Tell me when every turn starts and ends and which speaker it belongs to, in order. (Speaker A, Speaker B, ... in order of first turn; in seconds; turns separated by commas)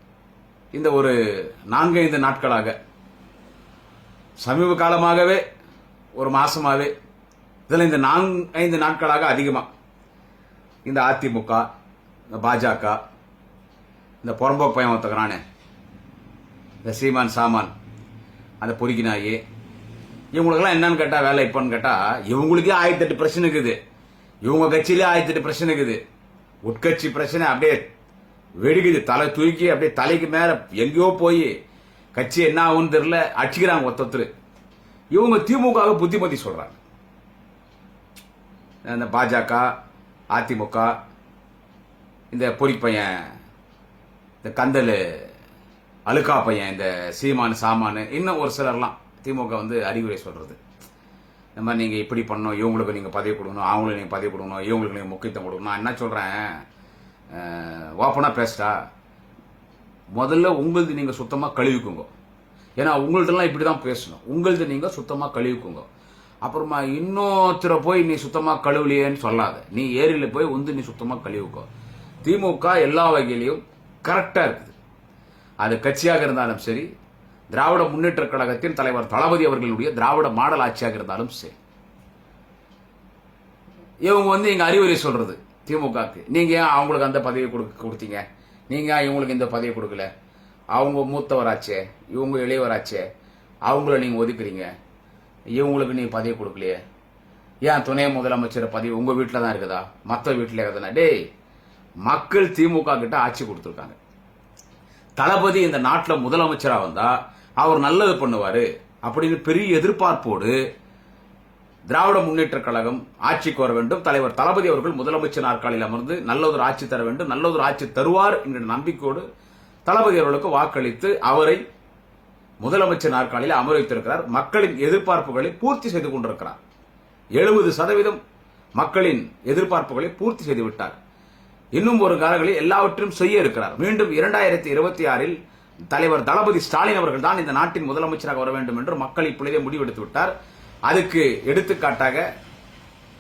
Speaker A: 0.7-1.1, Speaker A: 1.7-2.8, Speaker A: 4.4-5.4, Speaker A: 6.2-6.9, Speaker A: 7.7-9.7, Speaker A: 10.8-11.7, Speaker A: 12.3-13.0, Speaker A: 14.2-15.4, Speaker A: 16.8-17.7, Speaker A: 18.6-19.4, Speaker A: 20.3-23.8, Speaker A: 24.4-26.0, Speaker A: 26.6-27.9, Speaker A: 28.6-31.5, Speaker A: 32.1-34.3, Speaker A: 35.1-36.8, Speaker A: 38.9-39.7, Speaker A: 40.3-40.9, Speaker A: 42.3-43.3, Speaker A: 44.4-45.2, Speaker A: 46.1-50.6, Speaker A: 51.6-56.6, Speaker A: 57.3-58.8, Speaker A: 60.1-62.1, Speaker A: 62.8-65.8, Speaker A: 66.4-71.7, Speaker A: 72.2-74.7, Speaker A: 75.6-76.9, Speaker A: 77.5-81.6, Speaker A: 84.0-90.1, Speaker A: 90.7-93.0, Speaker A: 93.7-94.7, Speaker A: 95.5-96.8, Speaker A: 97.6-101.1, Speaker A: 102.0-104.0, Speaker A: 105.2-110.6, Speaker A: 111.9-119.2, Speaker A: 119.8-121.6, Speaker A: 122.6-126.6, Speaker A: 127.4-128.2, Speaker A: 128.8-131.0, Speaker A: 131.7-135.4, Speaker A: 135.9-140.3, Speaker A: 140.9-142.2